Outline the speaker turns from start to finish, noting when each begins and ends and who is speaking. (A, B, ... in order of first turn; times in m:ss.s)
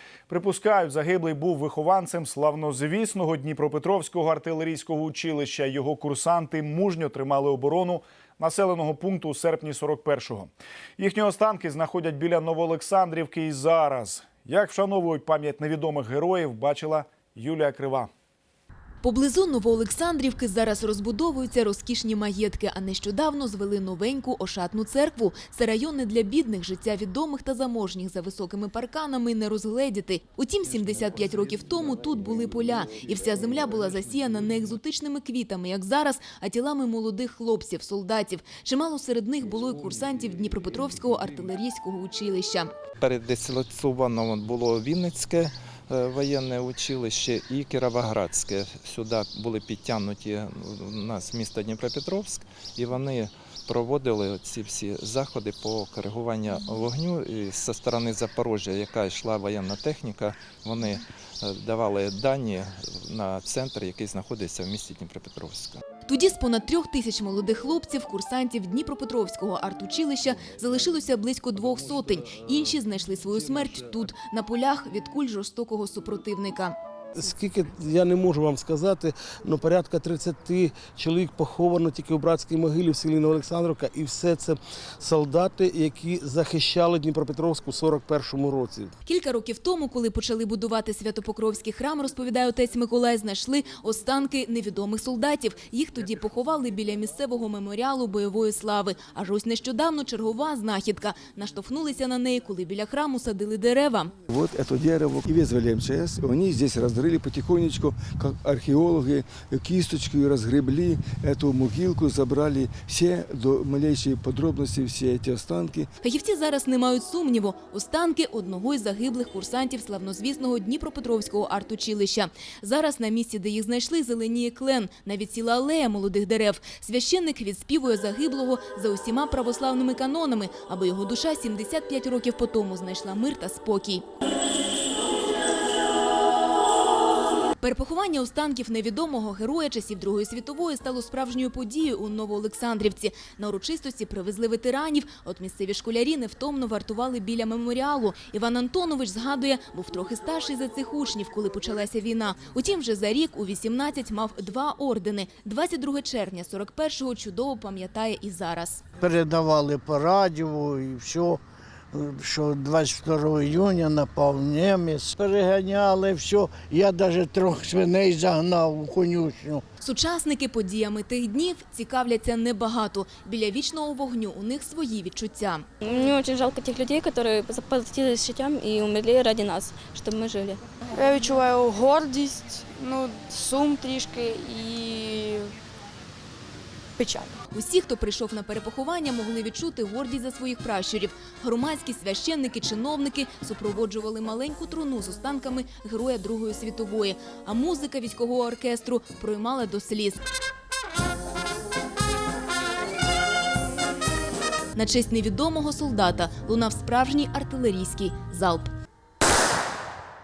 0:00.3-0:18.1 A
0:19.0-0:42.7 B
0:43.0-1:05.8 C
1:06.0-1:16.8 B
1:17.1-1:28.9 D
1:29.0-1:44.1 B
1:44.3-1:55.9 E
1:56.0-2:14.0 B
2:17.6-2:38.8 B
2:39.0-2:41.4 F
2:41.9-2:49.6 F
2:49.8-2:55.6 B
2:55.8-3:00.6 G
3:00.9-3:05.5 H
3:07.0-3:07.4 H
3:07.5-3:20.2 B
3:24.7-3:28.7 B